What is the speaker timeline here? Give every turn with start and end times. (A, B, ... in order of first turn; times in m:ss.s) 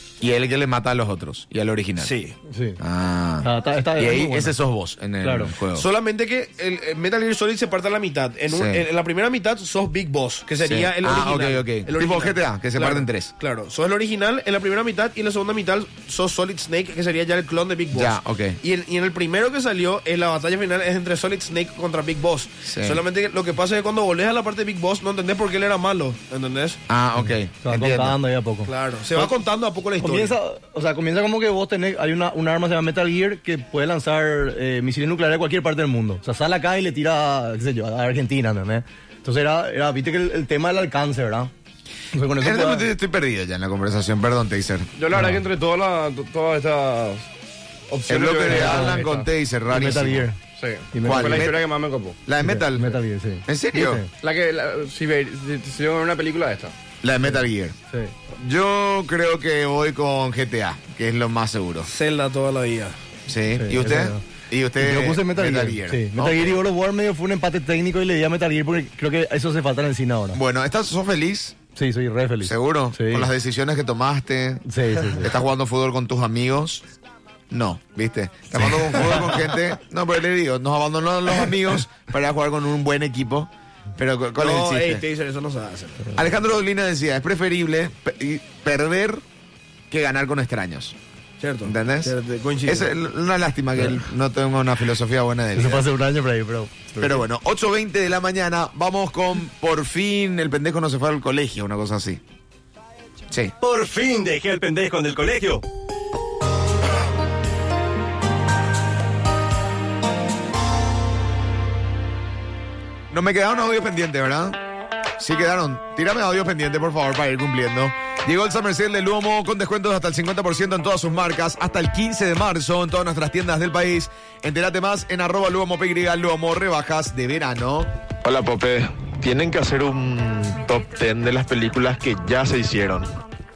0:00.2-0:02.2 A
0:02.0-0:02.4 B
0:02.5-0:02.8 C
0:02.8-0:05.9 A
0:03.4-0:04.6 C
0:05.2-0:05.5 C
0:05.7-0:26.8 B
0:08.5-0:08.8 A
0:10.6-0:13.3 A
0:17.9-0:18.6 A
0:22.7-0:23.0 A
0:26.9-0:28.2 A
0:27.6-0:29.4 C
0:28.7-0:30.4 B
0:30.0-0:41.5 C
0:42.1-0:42.9 C
0:42.4-0:44.9 A
0:45.0-0:47.3 D
0:45.1-0:45.5 C
0:47.9-0:49.3 D
0:48.1-0:50.3 A
0:48.5-0:49.0 C
0:49.7-0:50.4 C
0:50.6-0:52.2 D
0:50.9-0:51.6 C
0:51.0-0:51.7 A
0:52.2-0:54.0 A
0:52.4-0:54.1 C
0:54.2-0:56.7 D
0:57.0-0:57.8 A
0:58.3-1:01.9 A
1:01.9-1:03.0 B
1:03.3-1:06.6 A
1:03.6-1:04.2 C
1:04.8-1:10.4 C
1:10.3-1:11.6 A
1:11.8-1:13.3 C
1:12.4-1:16.8 A
1:14.7-1:15.4 C
1:17.5-1:25.0 A
1:18.6-1:19.2 C
1:24.4-1:26.2 B
1:26.2-1:29.2 A
1:29.9-1:31.0 A
1:31.4-1:32.9 B
1:31.6-1:35.9 A
1:35.6-1:37.2 C
1:37.0-1:42.2 A
1:43.6-1:45.6 E
1:53.1-1:54.6 A
1:55.2-2:07.9 A
2:08.2-2:13.1 F